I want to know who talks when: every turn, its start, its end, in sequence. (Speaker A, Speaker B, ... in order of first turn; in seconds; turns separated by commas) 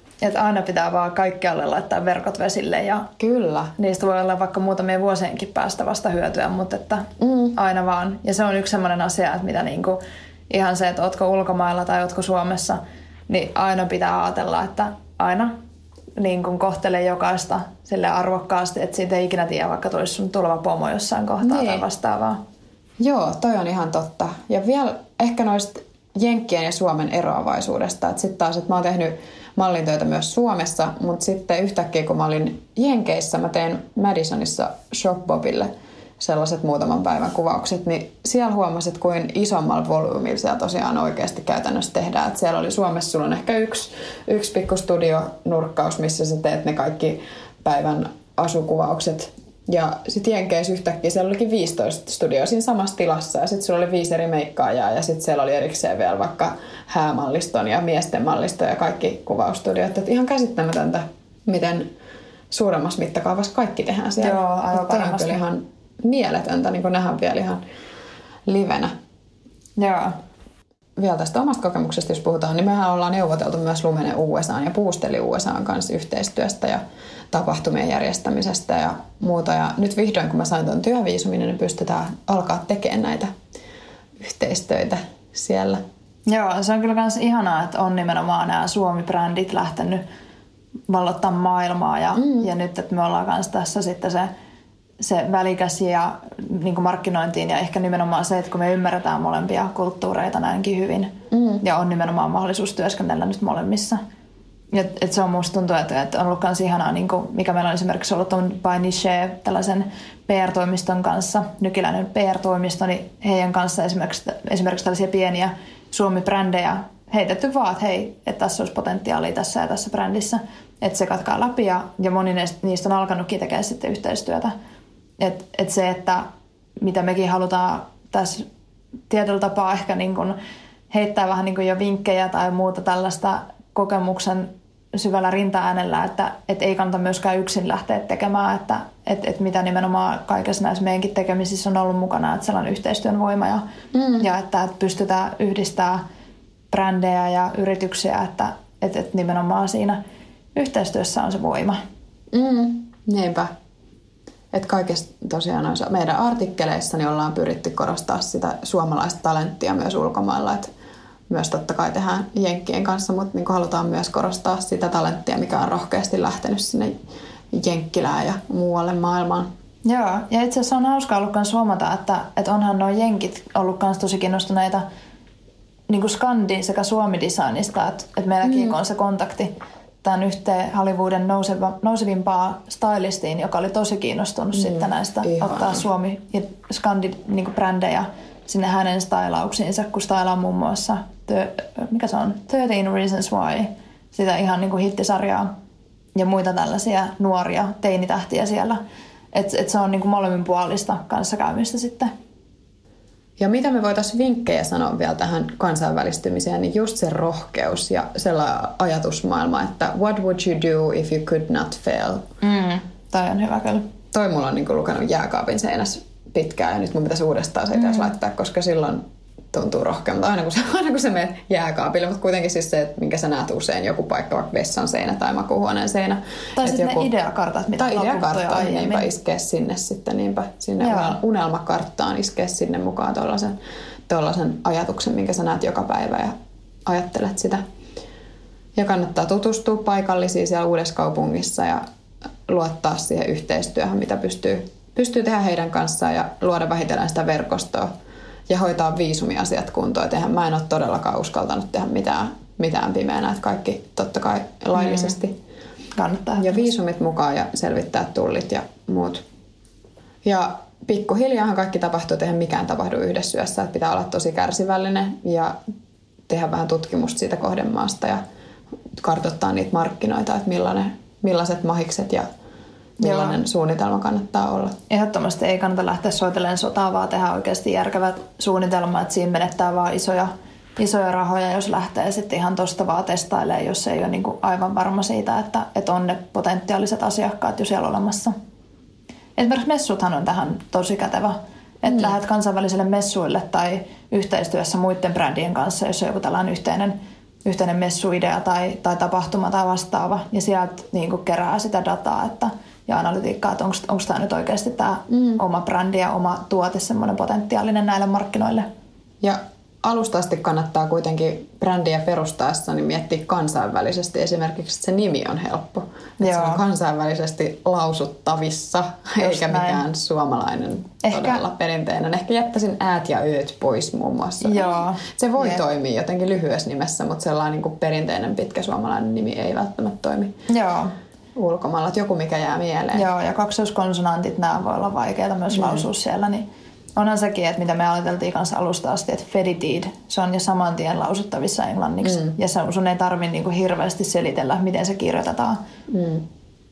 Speaker A: 0.2-3.1, Speaker B: 3.2-3.7, Speaker A: 3.8-15.5, Speaker B: 7.2-7.5, Speaker A: 16.2-22.4, Speaker B: 21.4-21.8, Speaker B: 23.0-61.9, Speaker B: 62.5-67.6, Speaker A: 64.2-65.4, Speaker B: 68.5-68.9, Speaker A: 69.8-70.1, Speaker B: 71.0-83.3, Speaker B: 84.2-85.8, Speaker A: 86.2-90.0, Speaker A: 90.9-94.3, Speaker B: 92.2-92.5, Speaker A: 95.0-104.0, Speaker B: 101.3-101.6, Speaker A: 104.7-124.5, Speaker A: 125.2-126.2, Speaker A: 126.8-128.5, Speaker A: 129.1-130.4, Speaker A: 130.9-143.6, Speaker B: 143.9-144.3, Speaker A: 144.2-146.0, Speaker A: 146.7-150.0, Speaker A: 150.5-151.8, Speaker B: 152.3-153.5, Speaker B: 154.5-160.7, Speaker B: 161.3-166.9, Speaker B: 167.5-169.5, Speaker A: 169.8-174.8, Speaker A: 175.9-179.5, Speaker B: 178.5-178.7, Speaker A: 180.0-195.5, Speaker B: 184.5-185.8, Speaker A: 196.1-198.8, Speaker A: 199.3-202.1, Speaker B: 203.4-212.2, Speaker A: 212.4-213.8, Speaker B: 214.1-227.1, Speaker A: 217.7-218.1, Speaker A: 226.6-229.1, Speaker B: 227.8-233.6, Speaker A: 230.8-231.2, Speaker B: 234.1-236.3, Speaker B: 236.9-237.6, Speaker B: 238.8-241.8, Speaker B: 242.5-247.9, Speaker B: 248.5-255.3, Speaker A: 255.9-256.7, Speaker B: 256.4-259.2, Speaker B: 260.2-265.6, Speaker B: 266.3-268.2, Speaker B: 269.0-272.3, Speaker B: 273.0-274.8, Speaker A: 273.0-273.4, Speaker A: 274.9-288.4, Speaker A: 289.4-308.7, Speaker B: 305.1-305.4, Speaker B: 309.2-330.3, Speaker A: 316.2-316.6, Speaker A: 319.2-319.9, Speaker A: 321.0-321.4, Speaker A: 324.4-325.6, Speaker A: 330.5-330.9, Speaker B: 331.4-333.1, Speaker A: 332.9-336.4, Speaker B: 335.5-335.9, Speaker A: 337.0-345.6, Speaker B: 342.0-342.3, Speaker B: 345.9-346.2